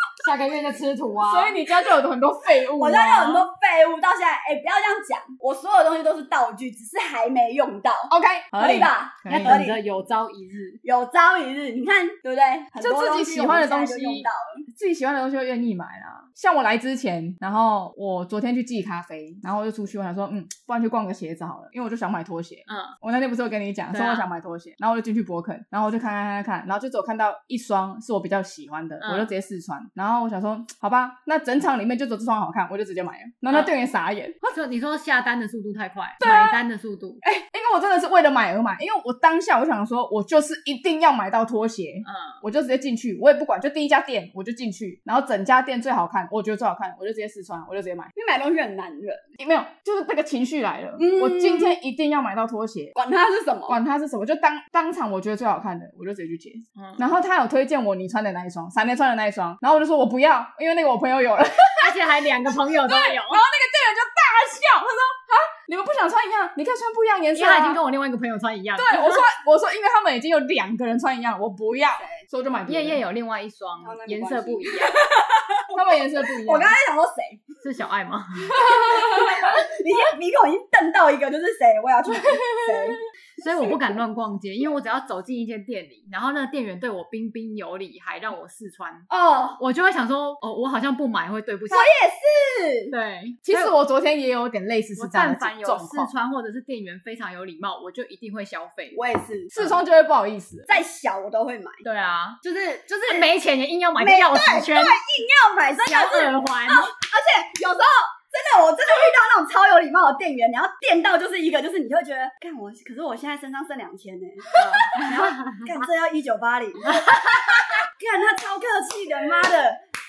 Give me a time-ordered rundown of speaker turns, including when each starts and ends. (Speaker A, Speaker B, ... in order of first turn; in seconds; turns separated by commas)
Speaker A: 0.2-1.6, Speaker B: 1.2-3.5, Speaker C: 2.8-9.8, Speaker B: 8.1-9.6, Speaker A: 9.3-10.8, Speaker C: 10.8-14.7, Speaker B: 12.8-34.5, Speaker A: 22.7-22.9, Speaker A: 23.9-24.2, Speaker A: 29.0-29.3, Speaker A: 34.5-37.2, Speaker B: 36.2-36.6, Speaker B: 37.2-48.1, Speaker A: 42.0-42.4, Speaker C: 48.1-49.3, Speaker B: 49.4-52.9, Speaker C: 51.0-51.8, Speaker C: 52.9-53.8, Speaker B: 53.7-67.8, Speaker A: 56.8-57.0, Speaker A: 61.8-63.5, Speaker A: 67.3-69.2, Speaker B: 68.8-73.0, Speaker C: 72.0-72.2, Speaker A: 72.7-75.0, Speaker C: 73.8-75.7, Speaker B: 75.7-76.7, Speaker C: 76.4-77.6, Speaker A: 77.6-78.6, Speaker C: 78.5-83.0, Speaker B: 78.6-79.3, Speaker B: 82.2-82.8, Speaker A: 83.4-89.1, Speaker C: 89.1-89.6, Speaker A: 89.6-91.9, Speaker C: 91.7-92.9, Speaker A: 92.9-93.7, Speaker B: 93.4-96.1, Speaker A: 95.0-99.0, Speaker C: 98.9-99.5, Speaker B: 99.5-100.8, Speaker C: 100.7-101.8, Speaker A: 101.8-105.0, Speaker C: 102.4-103.2, Speaker C: 104.0-119.8, Speaker A: 105.8-106.9, Speaker A: 114.9-115.8, Speaker A: 116.9-117.2